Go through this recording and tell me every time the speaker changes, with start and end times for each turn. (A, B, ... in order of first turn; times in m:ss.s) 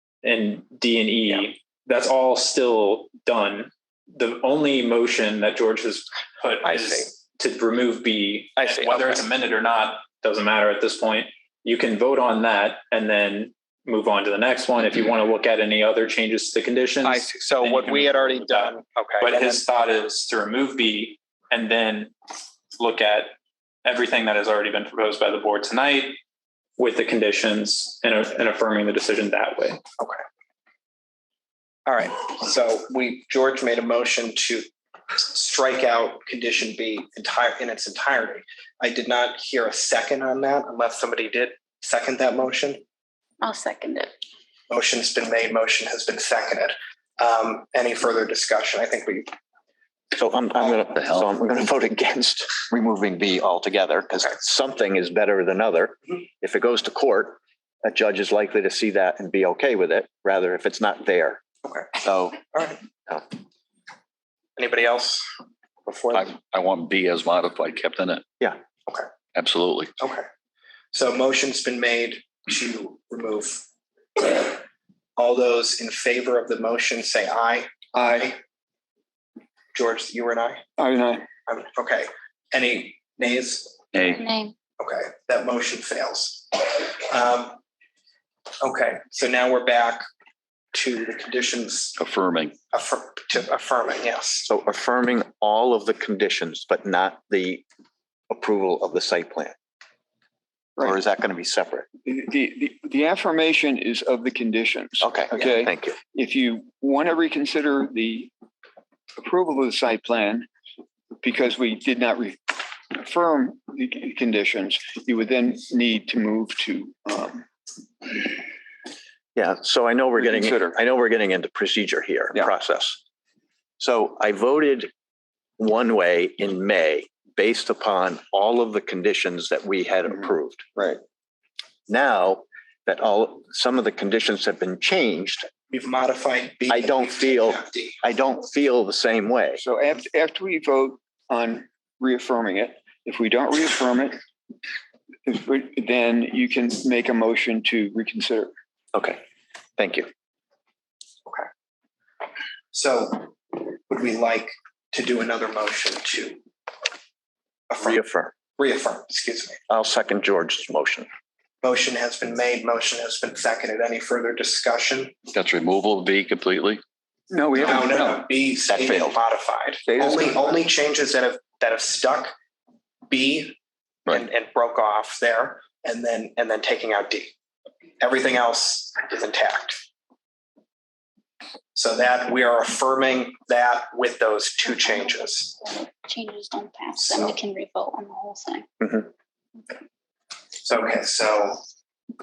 0:00.2-0:22.1 A
0:06.6-0:07.1 B
0:08.6-0:09.2 B
0:17.0-0:19.6 B
0:22.8-0:23.3 A
0:23.8-0:26.2 A
0:26.8-0:29.8 A
0:31.9-0:34.7 B
0:35.2-0:42.8 B
0:43.4-0:44.1 C
0:44.7-0:49.3 B
0:50.1-1:01.4 D
0:51.0-0:51.3 E
1:01.6-1:02.8 B
1:02.0-1:02.4 D
1:04.6-1:05.3 B
1:05.9-1:06.3 B
1:06.1-1:08.2 E
1:09.4-1:09.9 E
1:10.0-1:10.3 B
1:10.9-1:13.6 B
1:14.2-1:14.6 B
1:15.2-1:18.4 B
1:18.0-1:18.3 F
1:19.7-1:20.6 B
1:20.8-1:21.3 F
1:21.5-1:23.8 B
1:23.9-1:24.2 E
1:24.1-1:24.5 C
1:24.8-1:27.6 B
1:28.6-1:30.0 B
1:30.7-1:32.0 B
1:32.0-1:32.6 E
1:32.7-1:34.5 B
1:34.5-1:37.6 D
1:38.3-1:39.6 D
1:40.8-1:41.9 D
1:42.0-1:48.3 F
1:45.0-1:46.0 D
1:49.2-1:50.5 F
1:51.2-1:57.4 F
1:59.4-2:03.0 D
2:00.2-2:00.8 F
2:03.8-2:04.9 D
2:05.6-2:10.7 D
2:10.1-2:11.0 F
2:11.9-2:15.5 D
2:15.7-2:18.0 B
2:16.7-2:19.6 D
2:19.6-2:24.2 F
2:25.3-2:28.5 F
2:28.9-2:29.2 D
2:29.8-2:30.1 D
2:32.7-2:36.4 B
2:37.7-2:38.0 B
2:37.8-2:38.3 D
2:38.6-2:39.6 B
2:39.7-2:41.1 D
2:41.6-2:45.1 B
2:45.3-2:46.8 E
2:47.3-2:48.2 F
2:47.6-2:52.3 B
2:48.7-2:49.2 D
2:49.9-2:50.4 F
2:53.1-2:57.3 B
2:58.0-2:59.8 B
3:01.7-3:05.6 B
3:04.7-3:08.9 C
3:07.0-3:07.4 B
3:10.6-3:11.6 B